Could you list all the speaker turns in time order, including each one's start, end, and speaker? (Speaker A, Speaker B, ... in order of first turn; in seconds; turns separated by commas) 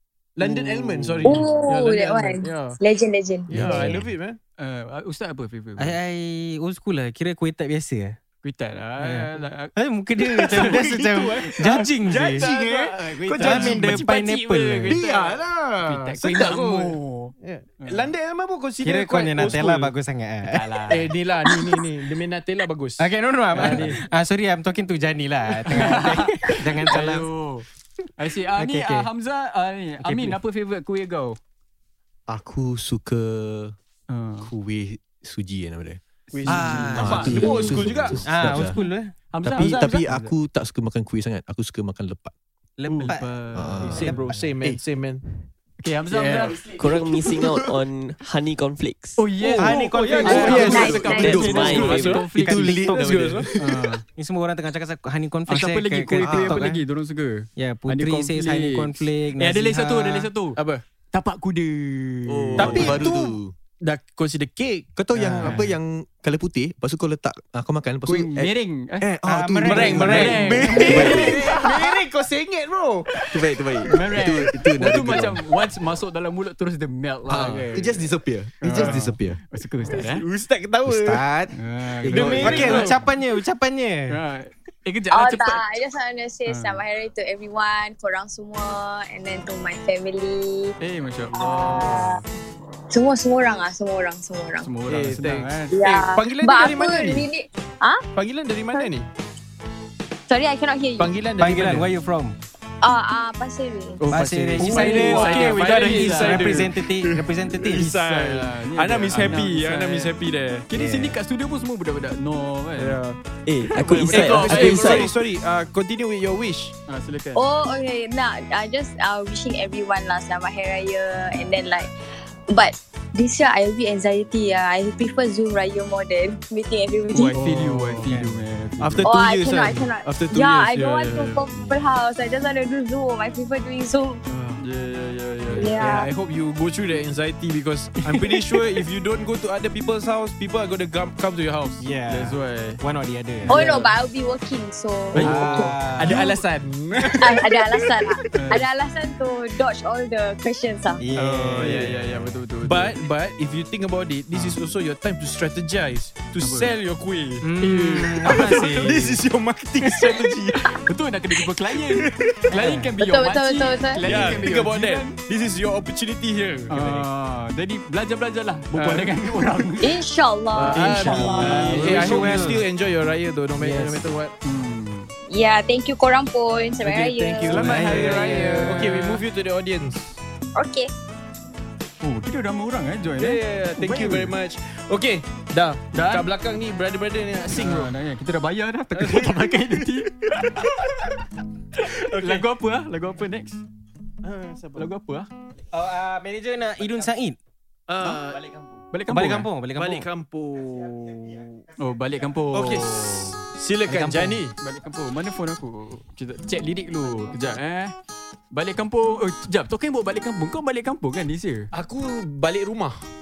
Speaker A: 0.4-2.8, Speaker B: 0.5-1.2, Speaker C: 1.2-4.0, Speaker A: 3.5-4.4, Speaker B: 3.5-4.0, Speaker D: 4.6-6.0, Speaker B: 5.8-8.2, Speaker D: 8.4-9.7, Speaker B: 9.0-12.5, Speaker D: 10.3-10.9, Speaker A: 10.4-14.0, Speaker D: 12.1-18.1, Speaker B: 13.4-15.0, Speaker A: 14.9-19.9, Speaker B: 18.8-20.6, Speaker D: 20.5-21.1, Speaker A: 20.9-24.0, Speaker B: 21.5-21.9, Speaker B: 23.0-27.3, Speaker D: 23.5-24.0, Speaker D: 25.6-31.4, Speaker B: 28.6-29.1, Speaker B: 30.0-30.4, Speaker E: 32.3-33.8, Speaker D: 34.1-34.5, Speaker E: 34.4-38.8, Speaker D: 36.3-37.5, Speaker A: 36.4-38.2, Speaker B: 36.5-39.1, Speaker D: 39.3-40.4, Speaker E: 39.4-42.4, Speaker A: 39.5-40.0, Speaker B: 42.8-43.3, Speaker D: 42.9-44.1, Speaker E: 43.1-44.8, Speaker A: 43.8-45.2, Speaker B: 44.0-44.5, Speaker D: 45.8-46.7, Speaker F: 46.6-49.3, Speaker D: 49.2-52.9, Speaker A: 49.4-53.6, Speaker B: 49.6-53.5, Speaker E: 50.5-52.1, Speaker F: 50.5-52.2, Speaker C: 50.6-51.5, Speaker D: 53.6-54.0, Speaker B: 54.1-56.8, Speaker D: 55.5-60.6, Speaker E: 56.2-56.6, Speaker B: 57.6-60.0, Speaker A: 59.9-60.8, Speaker D: 61.1-63.1, Speaker E: 62.3-63.5, Speaker A: 62.6-65.6, Speaker E: 65.0-71.4, Speaker D: 65.4-65.7, Speaker D: 68.1-69.1, Speaker B: 69.2-71.4, Speaker D: 69.6-71.8, Speaker A: 69.6-73.5, Speaker E: 73.3-75.5, Speaker D: 73.8-78.1, Speaker E: 77.3-79.4, Speaker D: 78.6-80.2, Speaker A: 80.0-81.2, Speaker B: 80.9-81.5, Speaker D: 81.6-83.0, Speaker E: 82.0-82.8, Speaker A: 82.1-83.0, Speaker B: 82.4-84.2, Speaker D: 84.1-85.6, Speaker C: 85.1-90.7, Speaker D: 86.5-86.8, Speaker D: 90.8-92.2, Speaker C: 91.3-92.2, Speaker C: 92.9-94.7, Speaker D: 94.6-95.7, Speaker A: 94.9-97.3, Speaker C: 95.7-98.0, Speaker A: 98.2-99.1, Speaker C: 100.3-101.2, Speaker A: 101.0-101.9, Speaker B: 101.4-102.4, Speaker C: 102.8-104.1, Speaker A: 104.0-110.7, Speaker B: 104.1-107.9, Speaker D: 104.1-106.7, Speaker D: 107.6-110.1, Speaker D: 110.7-113.0, Speaker B: 110.7-111.2, Speaker A: 112.8-113.2, Speaker F: 113.5-115.2, Speaker A: 113.8-116.7, Speaker D: 113.9-115.1, Speaker D: 116.9-117.4, Speaker C: 117.3-121.9, Speaker C: 122.5-127.4, Speaker D: 127.1-129.1, Speaker A: 127.4-128.0, Speaker B: 127.4-128.4, Speaker A: 128.8-131.3, Speaker C: 129.0-134.2, Speaker D: 131.2-131.8, Speaker D: 134.6-135.8, Speaker C: 135.5-136.1, Speaker A: 135.7-141.8, Speaker B: 138.1-138.4, Speaker B: 141.8-143.7, Speaker D: 142.1-142.8, Speaker D: 143.5-143.8, Speaker C: 143.5-145.7, Speaker B: 145.2-146.3, Speaker D: 145.2-146.4, Speaker A: 145.2-148.1, Speaker C: 147.2-151.0, Speaker D: 148.3-148.7, Speaker B: 151.0-152.2, Speaker D: 151.2-152.9, Speaker A: 151.6-152.0, Speaker A: 152.6-160.7, Speaker D: 156.4-156.8, Speaker B: 157.4-159.2, Speaker D: 157.6-159.0, Speaker D: 159.8-165.2, Speaker A: 161.5-162.3, Speaker B: 162.5-162.9, Speaker C: 163.0-164.3, Speaker A: 164.0-167.1, Speaker D: 166.7-170.0, Speaker A: 168.8-169.2, Speaker C: 169.8-171.8, Speaker A: 170.5-174.3, Speaker B: 170.7-172.6, Speaker D: 171.1-172.6, Speaker D: 173.6-175.1, Speaker C: 175.3-177.7, Speaker A: 176.8-180.2, Speaker D: 177.4-179.2, Speaker B: 177.5-178.9, Speaker C: 180.6-180.9, Speaker D: 182.0-184.3, Speaker A: 183.2-187.9, Speaker D: 185.9-186.3, Speaker D: 187.6-191.2, Speaker A: 188.9-190.7, Speaker D: 191.8-193.6, Speaker A: 191.8-192.5, Speaker A: 194.2-194.9, Speaker D: 194.8-195.3, Speaker B: 195.7-197.4, Speaker A: 197.9-198.5, Speaker D: 198.9-199.5, Speaker B: 199.1-200.1, Speaker A: 199.8-201.7, Speaker D: 201.8-203.4, Speaker A: 202.5-204.5, Speaker B: 203.9-204.4, Speaker D: 204.6-207.9, Speaker D: 208.5-211.7, Speaker A: 211.7-213.1